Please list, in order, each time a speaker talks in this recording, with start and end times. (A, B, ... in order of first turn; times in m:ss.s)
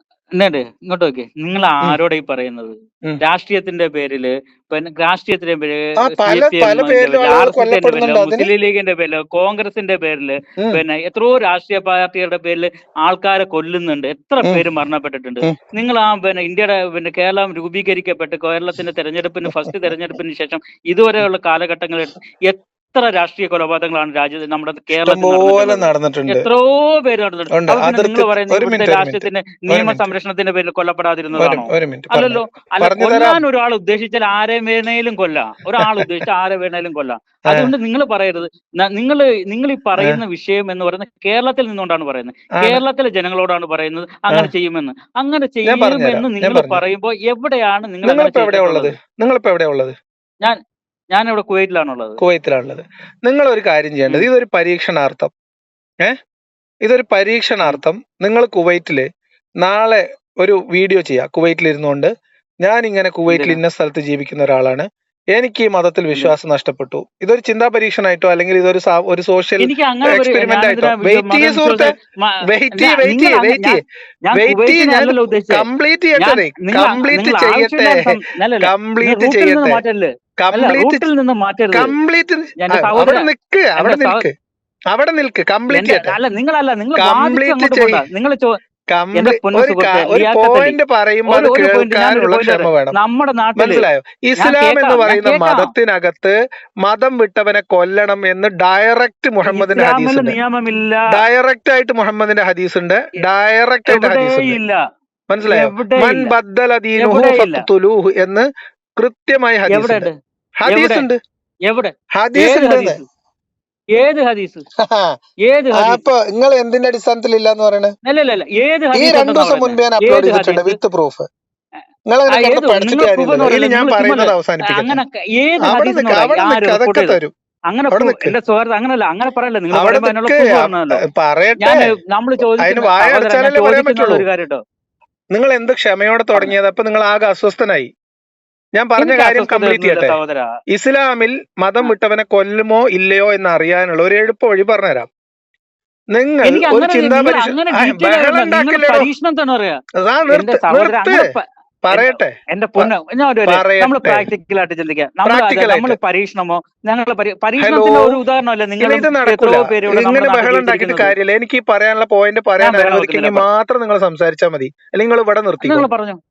0:00.4-0:49.0 A
0:06.0-0:08.5 B
0:19.4-0:19.8 B
0:25.0-0:26.5 B
0:27.5-0:30.1 B
0:31.4-0:33.4 B
0:35.8-0:36.1 B
0:45.6-0:46.8 B
0:48.0-0:50.0 B
0:51.1-0:52.2 A
0:52.2-0:55.3 B
0:56.8-0:59.1 B
0:59.6-1:02.1 B
1:02.6-1:11.9 B
1:03.3-1:03.6 A
1:09.6-1:15.7 A
1:12.4-1:13.8 B
1:14.3-1:19.8 B
1:16.2-1:21.9 A
1:20.4-1:21.0 B
1:21.7-1:24.3 B
1:22.6-1:24.2 A
1:24.9-1:26.2 B
1:25.7-1:28.6 A
1:27.0-1:28.0 B
1:28.9-1:32.9 B
1:29.1-1:33.8 A
1:33.6-1:40.4 B
1:34.4-1:35.7 A
1:39.4-1:41.2 A
1:41.1-1:44.6 B
1:43.9-1:44.8 A
1:45.3-1:48.5 B
1:45.4-1:46.3 A
1:47.0-1:47.6 A
1:49.0-1:50.1 B
1:49.7-1:50.2 A
1:50.6-1:51.2 B
1:50.7-1:51.1 A
1:51.7-1:53.0 A
1:52.1-1:53.0 B
1:54.0-1:54.6 A
1:54.8-1:55.1 B
1:55.5-1:56.0 A
1:55.7-1:57.9 B
1:58.0-2:00.8 A
1:58.9-2:01.3 B
2:02.1-2:05.0 B
2:02.3-2:07.2 A
2:05.6-2:07.3 B
2:07.7-2:11.0 A
2:07.9-2:08.3 B
2:09.7-2:11.9 B
2:11.6-2:14.6 A
2:12.6-2:14.2 B
2:15.3-2:17.9 B
2:18.8-2:20.2 B
2:19.0-2:20.6 A
2:20.7-2:25.1 B
2:26.1-2:29.1 B
2:26.4-2:41.1 A
2:30.0-2:31.3 B
2:31.8-2:32.9 B
2:33.5-2:34.3 B
2:35.2-2:36.0 B
2:37.6-2:38.2 B
2:38.8-2:45.8 B
2:42.6-2:43.5 A
2:45.6-2:46.2 A